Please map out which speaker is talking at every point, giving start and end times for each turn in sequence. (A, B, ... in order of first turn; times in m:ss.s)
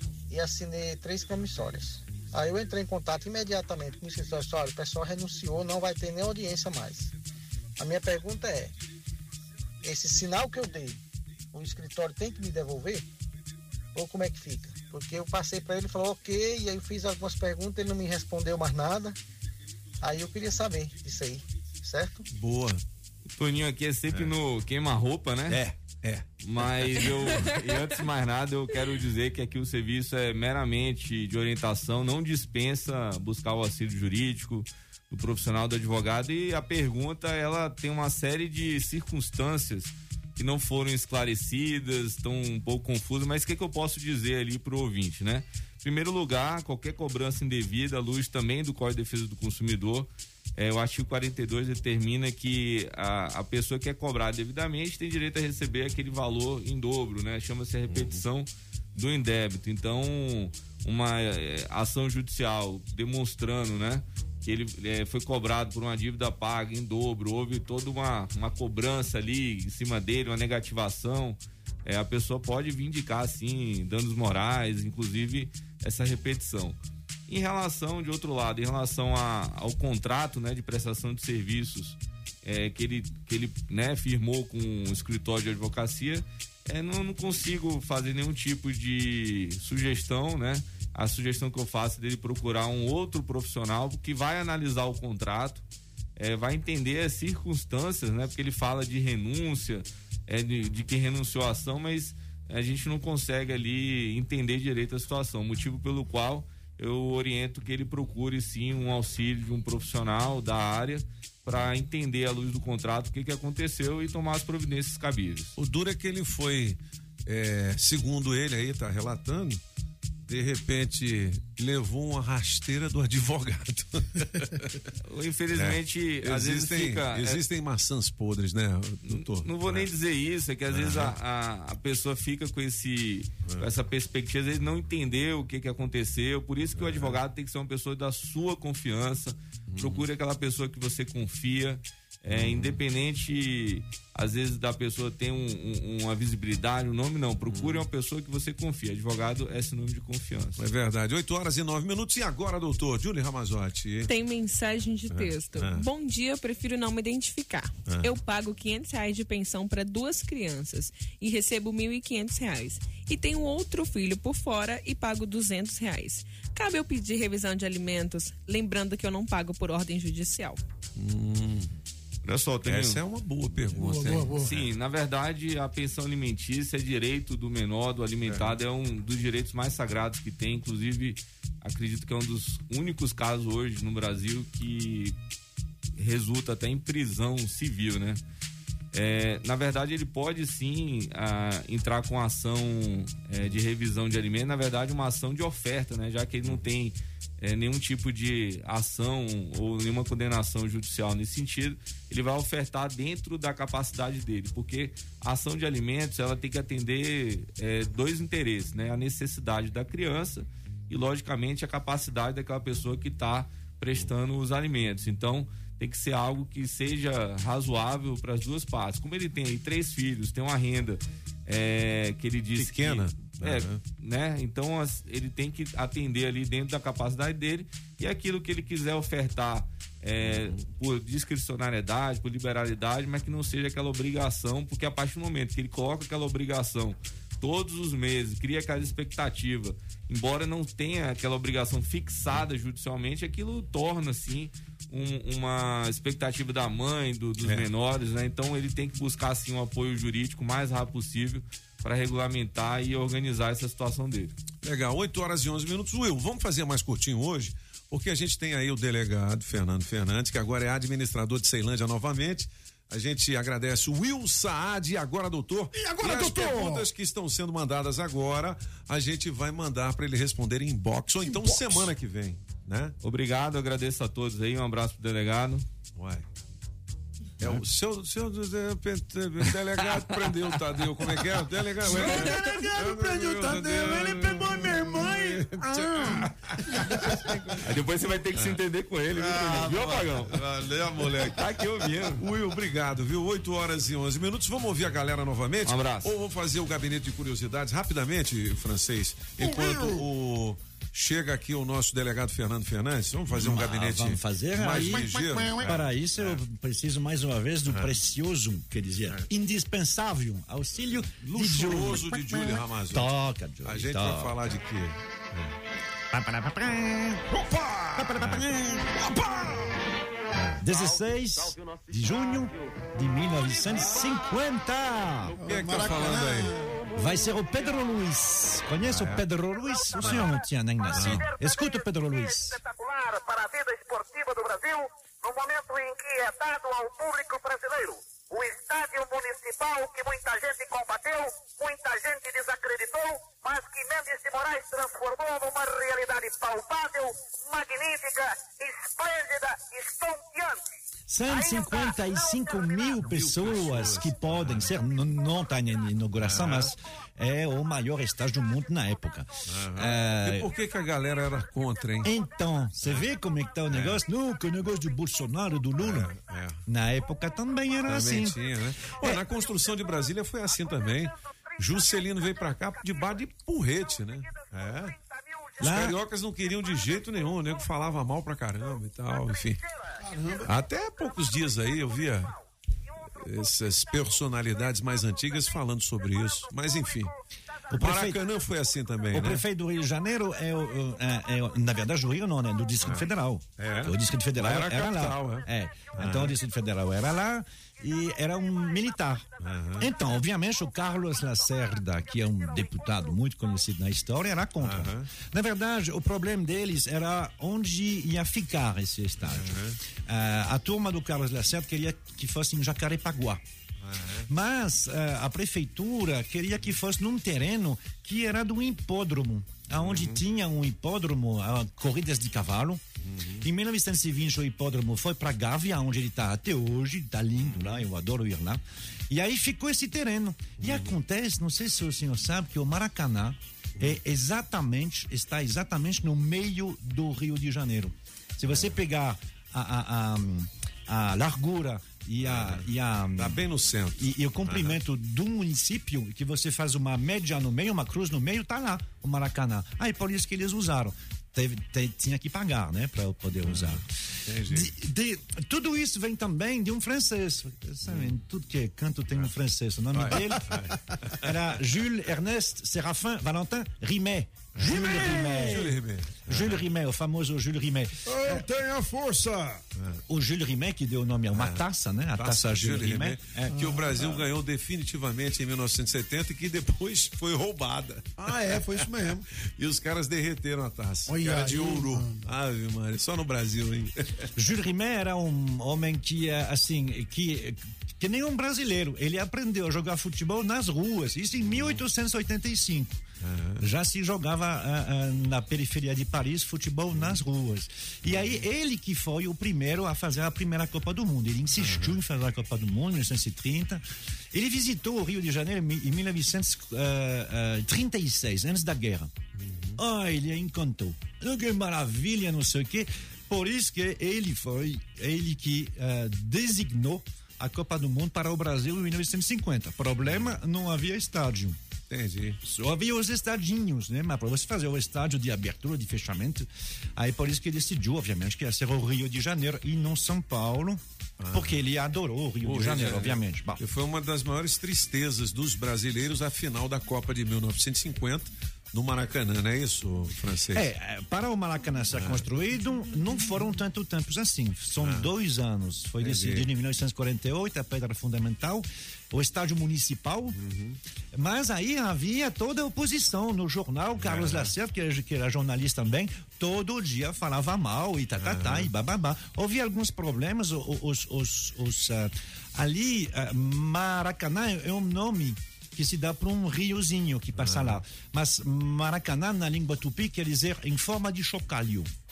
0:00.3-0:07.1 A
0:07.8-0:08.7 A
0:09.8-0:11.0 A
0:11.5-0:13.0 A
0:13.9-0:19.2 A
0:20.0-0:22.2 A
0:22.3-0:22.8 B
0:23.3-0:25.6 C
0:25.5-0:26.2 B
0:26.4-1:35.6 C
0:57.9-0:58.2 B
1:36.2-1:55.6 C
1:55.6-1:59.6 B
2:00.3-2:04.7 B
2:05.0-2:07.4 C
2:05.5-2:09.9 B
2:09.1-2:30.6 C
2:10.7-2:11.2 B
2:16.7-2:17.2 B
2:19.7-2:20.1 B
2:22.3-2:22.8 B
2:27.4-2:27.8 B
2:30.6-2:34.1 B
2:34.1-2:50.6 D
2:35.1-2:35.8 B
2:51.0-2:51.7 B
2:52.2-2:53.0 C
2:52.6-2:54.7 B
2:53.8-2:54.5 E
2:54.3-3:05.2 C
2:58.2-2:58.5 B
3:06.0-3:08.2 C
3:08.9-4:14.3 C
3:42.6-3:43.8 B
3:50.2-3:50.6 B
4:07.4-4:07.7 B
4:14.6-4:32.9 B
4:25.7-4:26.9 E
4:31.2-4:31.9 E
4:33.0-4:35.6 C
4:36.0-4:36.2 B
4:37.4-4:47.2 B
4:41.8-4:46.3 E
4:47.6-4:50.4 C
4:48.3-5:06.4 B
4:51.1-4:52.2 C
4:55.6-4:56.1 C
4:59.4-5:00.0 E
5:03.3-5:14.3 F
5:04.8-5:05.7 E
5:07.7-5:07.9 B
5:11.2-5:13.1 B
5:13.6-5:15.5 B
5:16.1-5:17.2 F
5:17.3-5:18.2 E
5:18.0-5:18.9 F
5:18.2-5:18.5 B
5:18.9-5:19.7 E
5:20.6-5:25.4 F
5:25.3-5:26.6 E
5:25.4-5:26.5 B
5:26.9-5:32.6 F
5:28.8-5:29.2 B
5:30.0-5:30.3 B
5:30.9-5:31.3 B
5:33.2-5:33.6 G
5:35.2-5:37.9 G
5:39.5-5:41.2 G
5:42.1-5:42.6 G
5:44.1-5:48.1 G
5:49.0-5:49.4 G
5:51.1-6:00.5 F
5:53.0-5:54.7 B
5:56.2-5:56.7 B
5:59.5-6:02.1 B
6:02.0-6:06.1 F
6:02.8-6:03.0 B
6:03.7-6:04.0 B
6:05.8-6:06.6 B
6:06.7-6:08.4 F
6:07.9-6:15.0 B
6:15.6-6:16.0 F
6:15.6-6:19.6 B
6:20.0-6:20.5 E
6:20.4-6:22.3 B
6:23.2-6:27.1 B
6:27.7-6:28.2 F
6:27.8-6:29.4 B
6:29.1-6:49.5 F
6:32.8-6:33.1 B
6:33.6-6:35.4 B
6:36.0-6:36.4 B
6:39.4-6:39.8 B
6:44.6-6:45.1 B
6:49.3-6:49.8 B
6:50.1-6:53.4 F
6:53.8-6:54.2 B
6:54.3-7:02.8 F
6:59.8-7:00.2 B
7:03.0-7:03.4 B
7:03.4-7:23.4 F
7:07.4-7:07.8 B
7:10.6-7:10.9 B
7:18.5-7:18.7 B
7:22.2-7:22.6 B
7:23.2-7:24.8 B
7:24.0-7:33.8 F
7:33.4-7:34.7 B
7:34.5-7:40.4 F
7:37.9-7:38.1 B
7:39.9-7:41.3 B
7:41.2-7:45.7 F
7:44.6-7:46.6 B
7:44.6-7:45.7 E
7:46.3-7:47.9 F
7:48.0-7:49.6 E
7:50.1-7:53.6 F
7:51.3-7:51.6 B
7:52.2-8:04.3 B
7:53.7-7:54.2 E
7:58.2-7:59.2 E
8:01.1-8:02.2 E
8:04.4-8:13.0 F
8:11.4-8:11.8 B
8:13.2-8:13.6 B
8:13.6-8:23.8 F
8:18.1-8:18.4 B
8:21.6-8:22.0 B
8:24.3-8:29.1 F
8:29.4-8:29.8 B
8:29.8-8:41.6 F
8:40.0-8:40.4 B
8:41.9-8:42.4 B
8:42.4-8:50.8 F
8:51.2-8:51.6 B
8:51.3-8:53.6 F
8:52.4-9:00.7 B
9:00.5-9:10.4 F
9:01.9-9:02.2 B
9:04.8-9:05.1 B
9:06.0-9:06.4 B
9:10.3-9:10.8 B
9:11.1-9:31.9 F
9:14.0-9:14.5 B
9:18.2-9:18.7 B
9:27.4-9:27.8 B